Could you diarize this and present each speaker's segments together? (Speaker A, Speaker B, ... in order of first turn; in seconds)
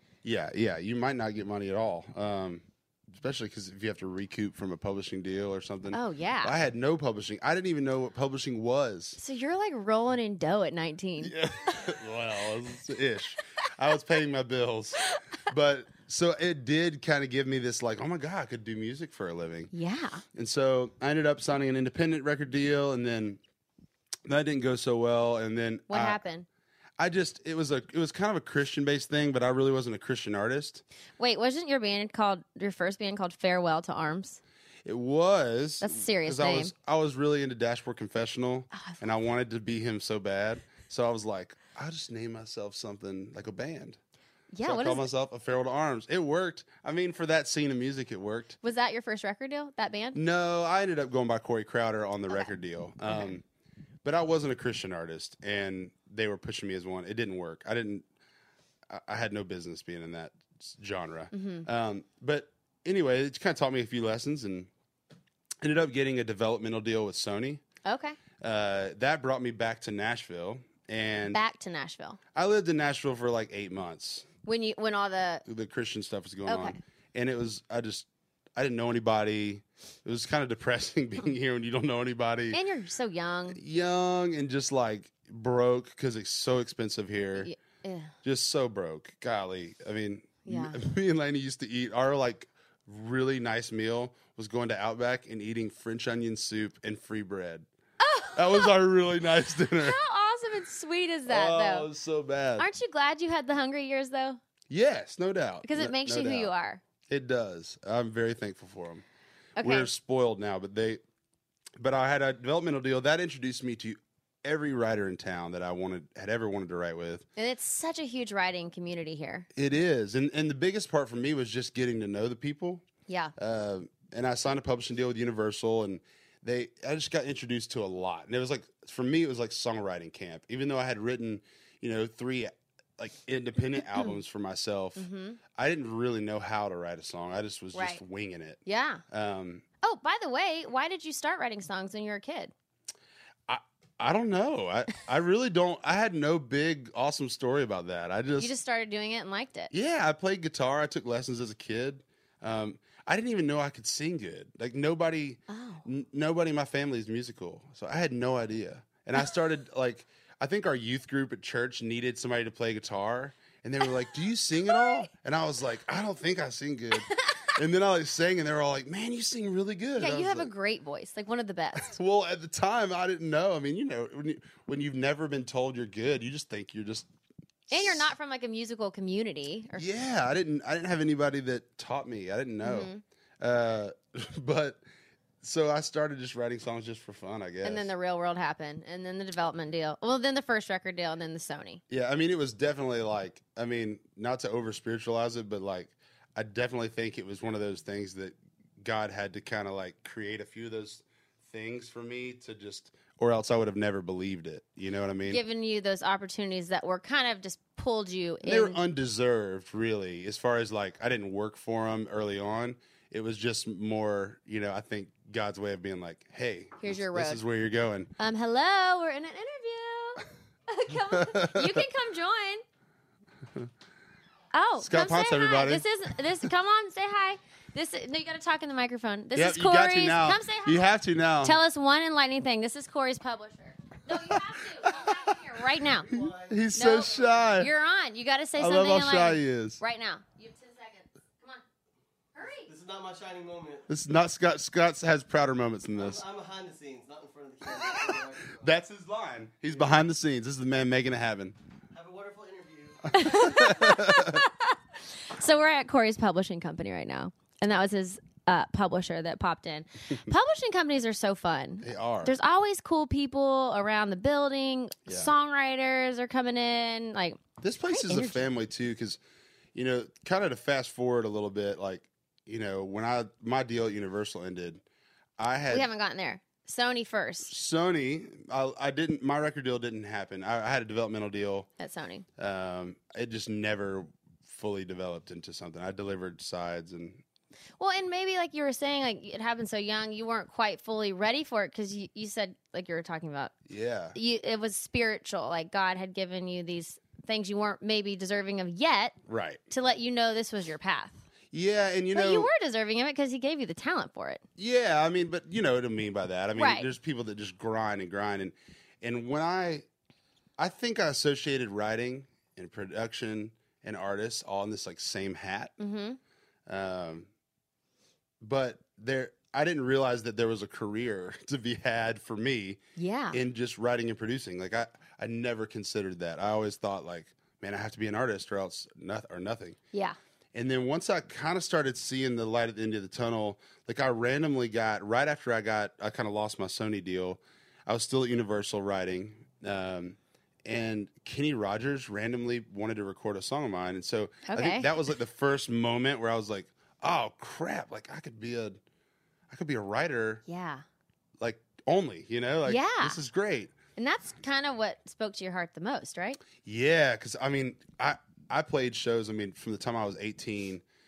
Speaker A: 0.2-9.2, 11.2-19.7, 20.3-23.4, 24.2-26.2, 27.0-30.8, 34.9-44.0, 44.6-48.6, 50.1-53.4, 54.0-58.0, 58.9-64.7, 65.6-67.6, 68.4-71.4, 72.3-74.3, 75.5-82.6, 83.5-87.5, 88.2-97.7, 98.3-100.0, 101.3-102.7, 104.7-106.5, 107.1-109.0, 109.6-111.0, 111.8-117.2, 119.5-122.8, 123.4-139.6, 143.5-148.6, 149.7-170.5, 171.7-177.1, 177.7-178.1, 179.8-184.8, 185.4-187.9, 191.9-205.4, 208.4-218.1, 221.0-221.9, 224.8-225.9, 229.3-231.6, 234.1-235.4, 236.1-237.7, 238.6-239.8, 243.9-246.2, 248.1-251.6, 253.1-254.4, 261.8-262.3, 265.1-265.3, 267.6-269.2, 269.7-274.8, 275.4-275.9, 277.5-281.7, 282.4-287.2, 293.7-294.1, 299.2-299.6, 301.5-302.5, 304.6-309.9, 310.6-315.7, 316.6-317.3, 318.4-322.8, 323.3-329.8, 330.5-348.8, 349.5-350.4, 351.4-353.8, 356.6-360.8
Speaker B: 5.9-6.5, 9.2-11.9, 19.7-20.2, 25.9-26.5, 31.2-34.4, 35.8-36.7, 38.7-39.1, 44.5-45.1, 48.6-50.2, 53.1-53.4, 61.3-61.7, 67.8-68.2, 71.3-72.2, 74.5-75.4, 76.5-76.8, 82.5-83.6, 87.3-88.1, 90.5-90.8, 98.0-98.7, 99.8-101.9, 102.6-104.4, 105.6-106.8, 109.6-109.9, 117.4-119.5, 123.1-123.3, 135.0-135.4, 137.7-138.0, 138.7-139.0, 139.8-142.5, 148.4-149.7, 155.5-155.8, 167.2-167.5, 170.0-172.0, 177.7-179.9, 182.6-183.0, 187.6-191.8, 205.3-208.8, 216.8-217.4, 218.2-222.6, 224.5-236.2, 236.8-241.6, 242.3-242.7, 253.1-268.4, 275.7-277.5, 281.8-282.2, 287.8-293.5, 294.1-299.1, 299.7-301.2, 302.1-304.4, 306.6-306.9, 315.8-316.2, 323.0-323.4, 344.5-344.9, 350.5-350.8, 352.6-353.2, 354.0-356.4
Speaker C: 236.1-237.3, 242.7-243.9, 246.0-248.7, 251.9-253.1